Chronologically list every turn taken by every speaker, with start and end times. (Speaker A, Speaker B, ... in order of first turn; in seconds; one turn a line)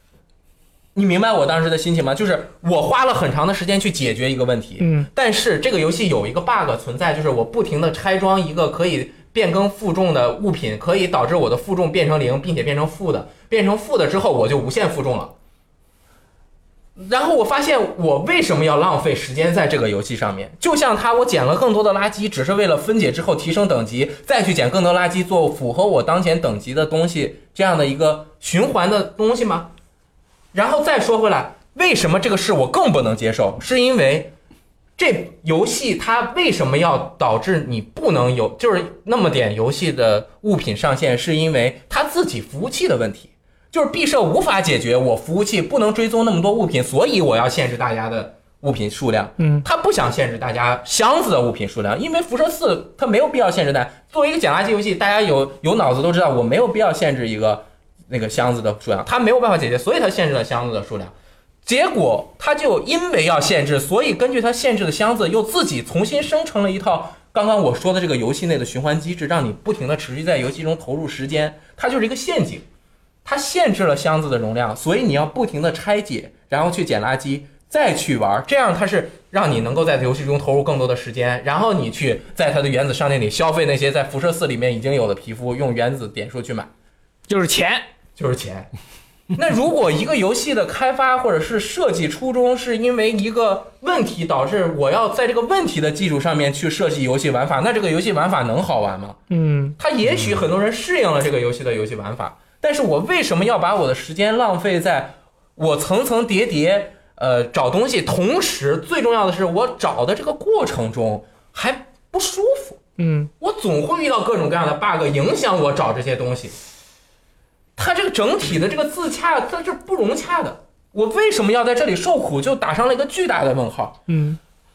Speaker A: 0.9-15.3
Speaker B: 4.8-5.1
Speaker A: 17.0-29.7
Speaker A: 30.5-34.3
Speaker A: 35.0-61.1
Speaker B: 49.4-49.6
Speaker A: 61.6-72.6
Speaker A: 73.2-86.7
Speaker B: 87.3-87.8
Speaker A: 88.2-88.7
Speaker A: 89.3-99.2
Speaker B: 99.3-99.8
Speaker A: 99.8-112.8
Speaker B: 113.0-113.3
Speaker A: 113.4-116.5
Speaker A: 117.8-124.0
Speaker B: 124.1-124.4